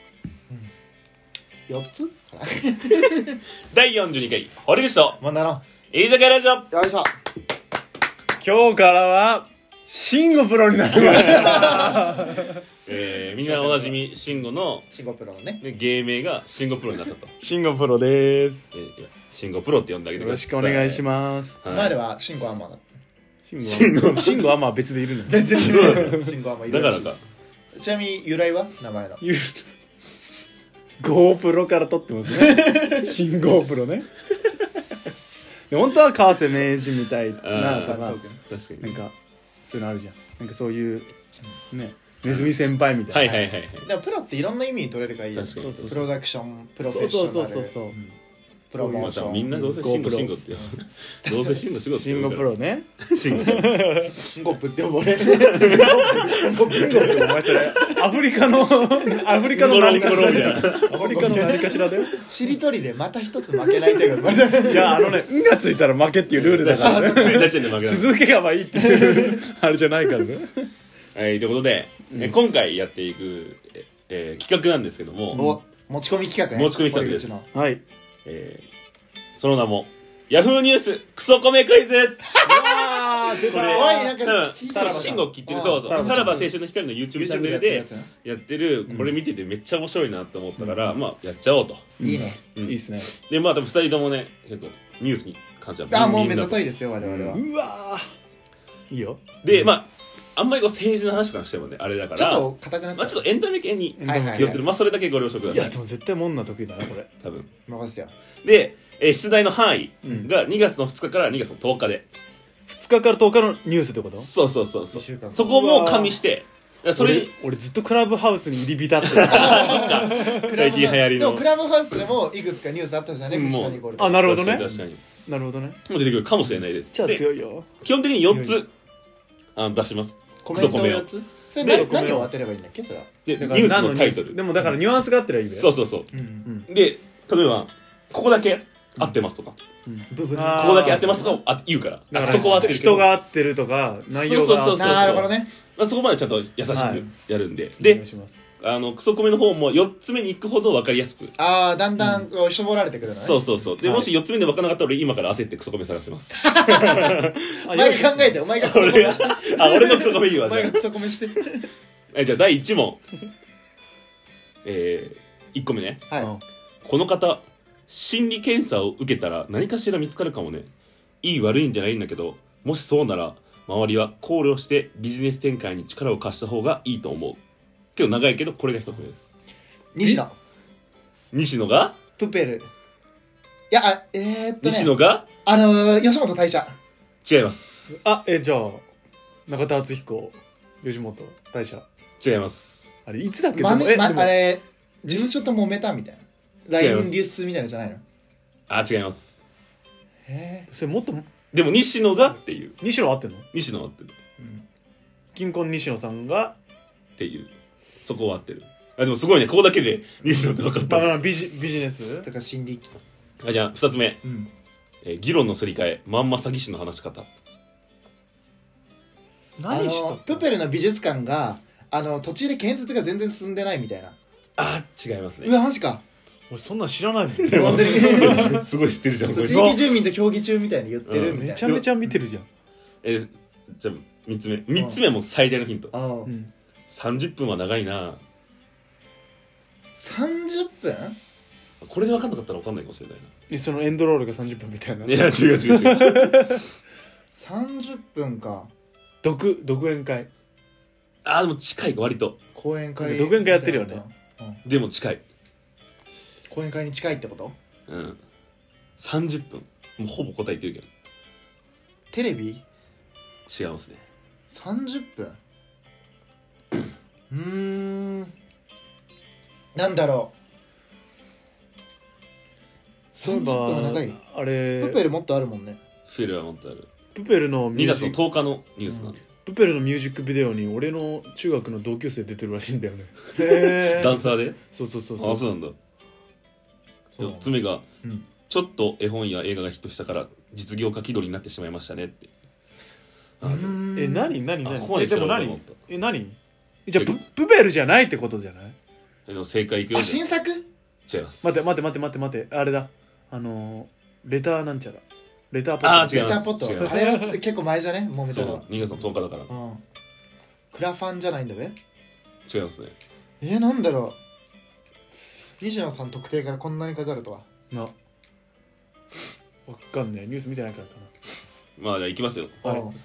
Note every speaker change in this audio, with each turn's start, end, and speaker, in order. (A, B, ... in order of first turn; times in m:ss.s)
0:01.7-0:03.4 A
0:03.7-0:05.2 B
0:05.2-0:05.6 A
0:05.9-0:06.7 B
0:06.7-0:07.1 A
0:08.4-0:12.6 C
0:11.1-0:11.9 B
0:11.3-0:12.0 A
0:12.8-0:14.9 B
0:13.5-0:14.0 A
0:14.9-0:15.6 A
0:15.6-0:17.3 B
0:17.4-0:18.7 C
0:18.7-0:21.0 B
0:20.2-0:21.6 C
0:21.6-0:22.0 B
0:21.6-0:22.8 A
0:23.4-0:26.3 C
0:23.6-0:24.5 B
0:25.2-0:27.1 A
0:25.5-0:27.2 B
0:27.8-0:29.2 A
0:29.2-0:29.6 C
0:31.0-0:34.1 C
0:32.3-0:33.1 A
0:35.7-0:38.2 C
0:37.4-0:39.0 B
0:37.7-0:38.4 A
0:38.8-0:39.1 C
0:39.7-0:41.1 C
0:41.7-0:43.3 C
0:42.2-0:42.5 B
0:43.1-0:43.9 B
0:43.2-0:48.1 A
0:45.3-0:46.1 B
0:45.6-0:46.1 C
0:46.8-0:48.0 C
0:48.7-0:49.6 A
0:48.7-0:50.4 C
0:48.9-0:54.1 B
0:51.2-0:51.6 A
0:51.9-0:54.1 C
0:54.2-0:58.1 A
0:55.5-0:57.1 B
0:55.6-1:02.2 C
0:59.5-1:01.2 B
0:59.9-1:05.2 A
1:04.6-1:10.7 C
1:06.3-1:08.2 B
1:06.7-1:07.7 A
1:08.9-1:09.4 A
1:11.1-1:15.4 B
1:15.3-1:15.6 C
1:15.3-1:17.5 A
1:16.5-1:17.4 B
1:17.5-1:17.8 C
1:18.2-1:18.6 B
1:19.3-1:22.4 B
1:22.4-1:24.2 C
1:23.4-1:31.9 B
1:23.5-1:26.5 A
1:24.7-1:26.4 C
1:27.1-1:28.1 A
1:30.6-1:30.9 C
1:32.0-1:33.1 C
1:32.0-1:32.4 A
1:32.5-1:37.2 B
1:35.9-1:37.4 A
1:37.2-1:38.1 C
1:38.9-1:39.2 C
1:39.4-1:45.8 B
1:42.1-1:43.2 A
1:44.0-1:44.6 C
1:44.0-1:44.6 A
1:45.5-1:47.1 C
1:47.2-1:47.5 B
1:47.7-1:48.1 A
1:48.4-1:52.0 B
1:52.7-1:54.3 C
1:54.2-1:57.3 B
1:54.9-1:55.5 A
1:55.4-1:56.2 C
1:57.0-2:00.6 C
1:59.0-2:01.5 B
1:59.3-2:04.6 A
2:03.3-2:05.0 B
2:04.0-2:05.8 C
2:05.9-2:07.2 B
2:06.8-2:07.7 C
2:07.8-2:08.7 B
2:08.3-2:08.6 A
2:09.6-2:11.1 B
2:10.4-2:13.1 A
2:11.6-2:11.9 B
2:11.6-2:12.3 C
2:13.2-2:14.5 B
2:13.4-2:15.7 C
2:15.4-2:16.1 B
2:16.1-2:16.5 A
2:16.7-2:19.6 B
2:19.8-2:21.4 C
2:20.1-2:21.2 A
2:20.6-2:23.1 B
2:22.1-2:25.3 C
2:22.2-2:23.0 A
2:24.1-2:28.0 B
2:24.7-2:25.5 A
2:26.6-2:27.0 C
2:27.8-2:28.3 C
2:28.6-2:31.3 B
2:31.4-2:33.4 A
2:33.0-2:37.6 B
2:33.8-2:34.1 C
2:36.3-2:41.7 A
2:37.6-2:38.4 C
2:38.6-2:40.8 B
2:42.1-2:43.0 B
2:44.6-2:46.0 B
2:46.8-2:50.7 B
2:51.2-2:57.4 B
2:57.9-2:59.3 B
2:59.9-3:00.3 A
3:01.3-3:02.0 B
3:02.2-3:02.7 A
3:03.7-3:06.7 A
3:04.6-3:05.2 B
3:07.2-3:08.0 B
3:07.9-3:08.8 C
3:09.5-3:11.8 C
3:12.2-3:12.9 B
3:13.0-3:15.3 C
3:13.5-3:18.0 A
3:16.7-3:17.5 B
3:18.7-3:19.4 B
3:20.2-3:20.7 A
3:20.7-3:21.2 C
3:21.5-3:22.8 B
3:22.8-3:23.4 C
3:23.5-3:24.1 B
3:24.4-3:24.6 A
3:25.3-3:26.5 C
3:27.2-3:31.2 B
3:30.8-3:32.3 C
3:32.2-3:32.9 A
3:33.4-3:34.2 B
3:34.2-3:34.5 A
3:35.0-3:37.3 B
3:39.6-3:40.4 C
3:39.7-3:44.2 A
3:44.6-3:45.5 B
3:45.4-3:46.0 A
3:46.5-3:48.6 C
3:47.4-3:48.6 A
3:47.4-3:49.7 B
3:49.3-3:51.7 A
3:49.4-3:49.8 C
3:51.0-3:51.9 B
3:51.3-3:52.5 C
3:53.0-3:55.9 B
3:54.7-3:55.0 A
3:55.9-3:56.3 A
3:56.2-3:56.5 C
3:56.9-3:58.2 B
4:00.0-4:01.2 A
4:01.8-4:03.3 B
4:03.5-4:06.6 C
4:05.0-4:06.5 B
4:07.3-4:08.7 A
4:09.2-4:10.3 C
4:11.2-4:12.4 B
4:12.5-4:14.6 A
4:13.0-4:14.0 C
4:14.6-4:15.2 B
4:16.5-4:17.6 A
4:17.9-4:18.2 B
4:19.0-4:20.9 B
4:22.1-4:22.6 A
4:23.5-4:24.0 B
4:24.5-4:25.4 A
4:27.3-4:28.3 A
4:29.7-4:30.3 A
4:33.2-4:34.2 A
4:33.2-4:35.0 C
4:34.8-4:35.8 A
4:36.0-4:36.9 B
4:37.1-4:38.2 C
4:37.7-4:39.2 B
4:38.9-4:39.1 A
4:39.4-4:45.4 C
4:43.4-4:44.2 A
4:43.8-4:44.6 B
4:45.2-4:45.8 B
4:47.1-4:47.5 A
4:47.2-4:47.8 B
4:48.0-4:48.3 A
4:48.5-4:52.3 B
4:53.4-4:53.8 B
4:53.4-4:54.4 A
4:53.9-4:58.7 C
4:54.6-4:55.8 B
4:56.9-4:57.2 B
4:59.2-5:00.2 B
4:59.9-5:00.6 A
5:01.1-5:01.6 B
5:01.4-5:06.9 C
5:05.8-5:07.0 B
5:06.0-5:08.7 A
5:08.3-5:09.5 B
5:09.5-5:09.8 A
5:10.7-5:11.8 A
5:12.5-5:12.9 B
5:13.4-5:14.2 A
5:15.6-5:17.4 A
5:19.7-5:21.1 C
5:21.8-5:22.7 B
5:22.6-5:23.0 A